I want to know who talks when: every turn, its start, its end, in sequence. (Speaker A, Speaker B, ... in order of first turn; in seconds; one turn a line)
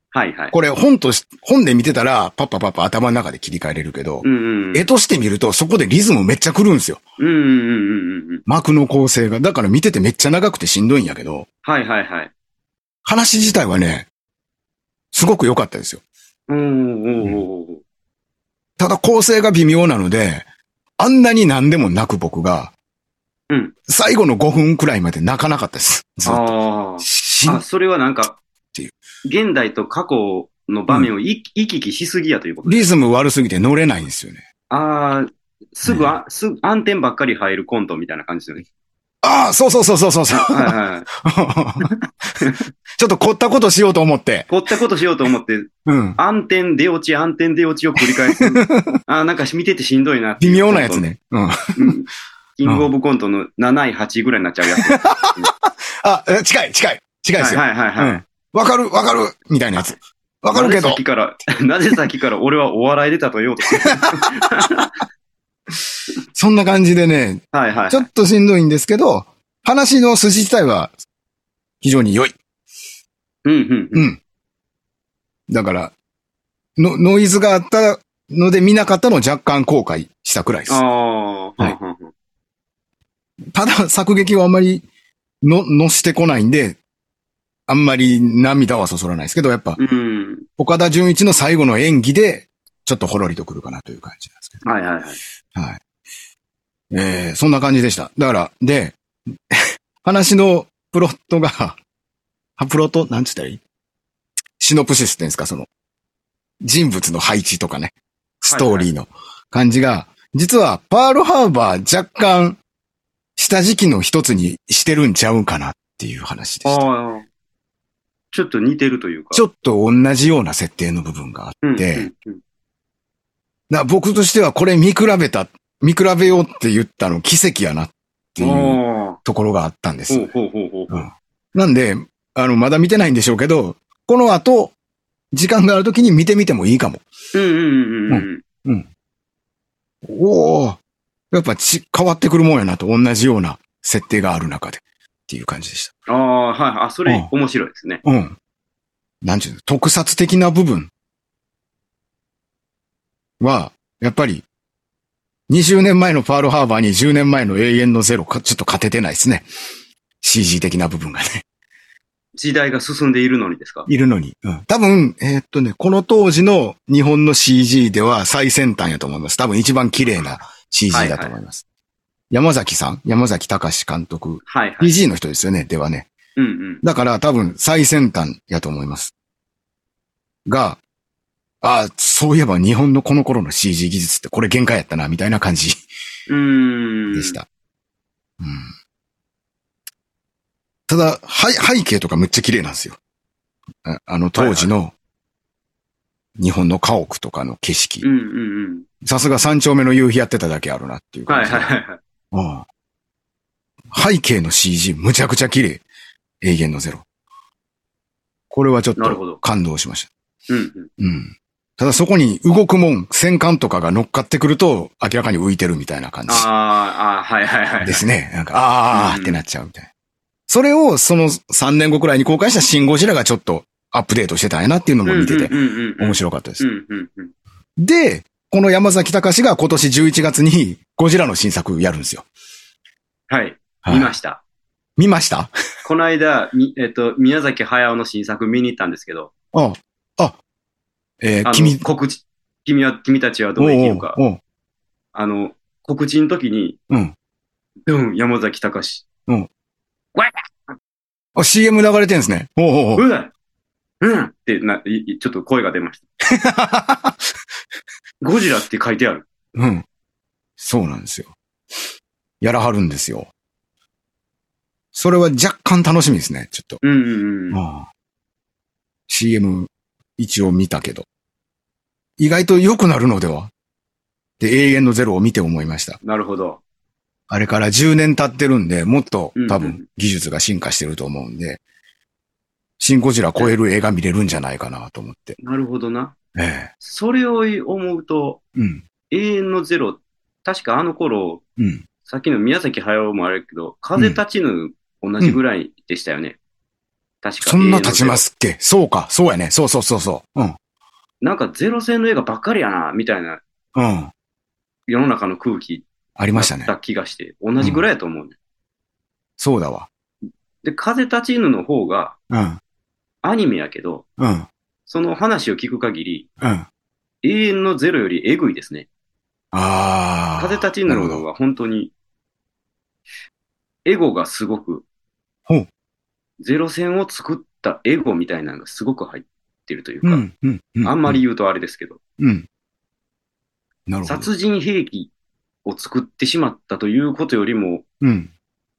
Speaker A: 0.1-0.6
Speaker B: 0.5-7.0
Speaker A: 4.2-4.9
Speaker A: 7.2-8.4
Speaker B: 8.5-11.5
Speaker A: 11.7-12.3
Speaker B: 13.1-14.1
Speaker B: 15.1-16.0
Speaker A: 16.5-17.8
Speaker B: 18.8-20.5
Speaker B: 21.0-22.7
Speaker B: 23.9-27.6
Speaker A: 26.2-28.4
Speaker A: 29.2-32.9
Speaker B: 32.6-34.4
Speaker A: 34.7-38.6
Speaker B: 35.9-36.1
Speaker B: 39.2-41.9
Speaker A: 40.3-41.1
Speaker A: 41.8-42.6
Speaker B: 43.0-44.5
Speaker A: 44.5-51.1
Speaker B: 45.9-46.2
Speaker B: 48.1-49.0
Speaker B: 50.4-51.9
Speaker A: 51.8-55.5
Speaker B: 54.8-61.0
Speaker A: 57.4-58.2
Speaker A: 60.5-64.9
Speaker B: 63.9-64.8
Speaker B: 66.3-70.9
Speaker A: 67.5-68.1
Speaker B: 71.8-72.4
Speaker A: 73.5-74.1
Speaker B: 74.0-74.2
Speaker B: 75.5-75.9
Speaker B: 76.8-80.8
Speaker A: 80.7-82.1
Speaker B: 83.5-84.9
Speaker B: 85.4-86.8
Speaker B: 87.7-89.8
Speaker A: 89.8-90.5
Speaker B: 90.6-94.6
Speaker A: 94.6-95.2
Speaker B: 95.5-95.8
Speaker B: 96.9-101.8
Speaker B: 102.6-103.6
Speaker B: 104.6-105.7
Speaker B: 106.6-112.6
Speaker A: 108.5-108.9
Speaker B: 113.4-116.8
Speaker A: 116.7-117.3
Speaker A: 118.3-119.4
Speaker B: 119.3-122.1
Speaker A: 121.6-122.4
Speaker B: 123.7-130.3
Speaker A: 128.4-129.2
Speaker A: 130.1-131.1
Speaker B: 130.9-134.8
Speaker B: 135.3-137.0
Speaker A: 137.3-138.4
Speaker B: 138.1-138.9
Speaker B: 140.0-140.8
Speaker B: 141.3-145.9
Speaker A: 146.1-148.0
Speaker B: 148.1-148.4
Speaker B: 149.2-150.9
Speaker B: 153.4-154.5
Speaker B: 155.5-159.5
Speaker B: 160.2-161.4
Speaker A: 162.4-163.9
Speaker B: 163.9-171.6
Speaker A: 170.9-171.3
Speaker B: 172.3-176.1
Speaker A: 174.5-174.9
Speaker A: 176.4-176.8
Speaker B: 176.8-179.1
Speaker B: 180.5-180.8
Speaker B: 181.6-185.8
Speaker A: 186.3-187.4
Speaker B: 187.1-187.5
Speaker B: 188.4-188.7
Speaker B: 190.9-193.0
Speaker B: 193.8-194.9
Speaker A: 194.4-194.7
Speaker B: 196.4-198.1
Speaker A: 198.0-198.9
Speaker B: 199.0-201.7
Speaker A: 201.3-202.0
Speaker B: 202.3-202.7
Speaker B: 203.9-205.8
Speaker B: 206.4-207.1
Speaker B: 208.5-210.1
Speaker A: 209.0-209.4
Speaker A: 210.5-210.9
Speaker B: 211.0-216.5
Speaker A: 216.3-218.1
Speaker B: 217.8-219.9
Speaker A: 218.9-219.4
Speaker B: 220.5-226.6
Speaker A: 225.1-227.3
Speaker B: 227.8-232.3
Speaker A: 233.3-234.4
Speaker B: 233.8-234.1
Speaker B: 235.0-235.5
Speaker A: 235.8-239.3
Speaker B: 239.5-240.4
Speaker B: 241.2-241.8
Speaker A: 241.4-244.2
Speaker B: 243.6-244.4
Speaker A: 245.1-246.8
Speaker B: 246.9-247.2
Speaker A: 247.9-249.1
Speaker B: 251.4-253.0
Speaker A: 253.0-253.3
Speaker A: 254.0-256.0
Speaker B: 256.3-257.2
Speaker A: 258.2-259.3
Speaker B: 259.6-259.9
Speaker B: 260.6-261.4
Speaker B: 262.4-263.3
Speaker B: 264.9-266.8
Speaker A: 266.8-267.6
Speaker B: 267.5-267.9
Speaker B: 269.1-271.1
Speaker B: 272.2-273.5
Speaker B: 274.4-276.0
Speaker A: 276.0-276.6
Speaker B: 277.3-281.6
Speaker A: 279.4-279.8
Speaker B: 282.8-285.4
Speaker A: 285.4-286.1
Speaker B: 286.4-286.7
Speaker A: 286.8-288.4
Speaker B: 288.6-288.8
Speaker A: 289.1-291.4
Speaker B: 291.6-291.8
Speaker A: 292.1-296.4
Speaker A: 297.2-298.2
Speaker B: 297.4-300.6
Speaker A: 301.2-303.4
Speaker B: 303.8-304.1
Speaker A: 304.9-308.4
Speaker B: 306.2-306.7
Speaker B: 309.4-309.9
Speaker A: 310.6-312.1
Speaker B: 312.3-312.6
Speaker A: 313.2-314.0
Speaker B: 314.2-314.5
Speaker A: 314.9-316.3
Speaker B: 316.4-316.7
Speaker A: 317.2-318.9
Speaker B: 319.5-321.2
Speaker A: 320.4-321.9
Speaker A: 323.9-324.8
Speaker A: 326.4-330.2
Speaker B: 330.0-331.2
Speaker A: 330.8-332.0
Speaker B: 332.2-332.5
Speaker B: 333.9-334.3
Speaker A: 334.1-335.1
Speaker A: 335.6-337.8
Speaker B: 338.0-338.3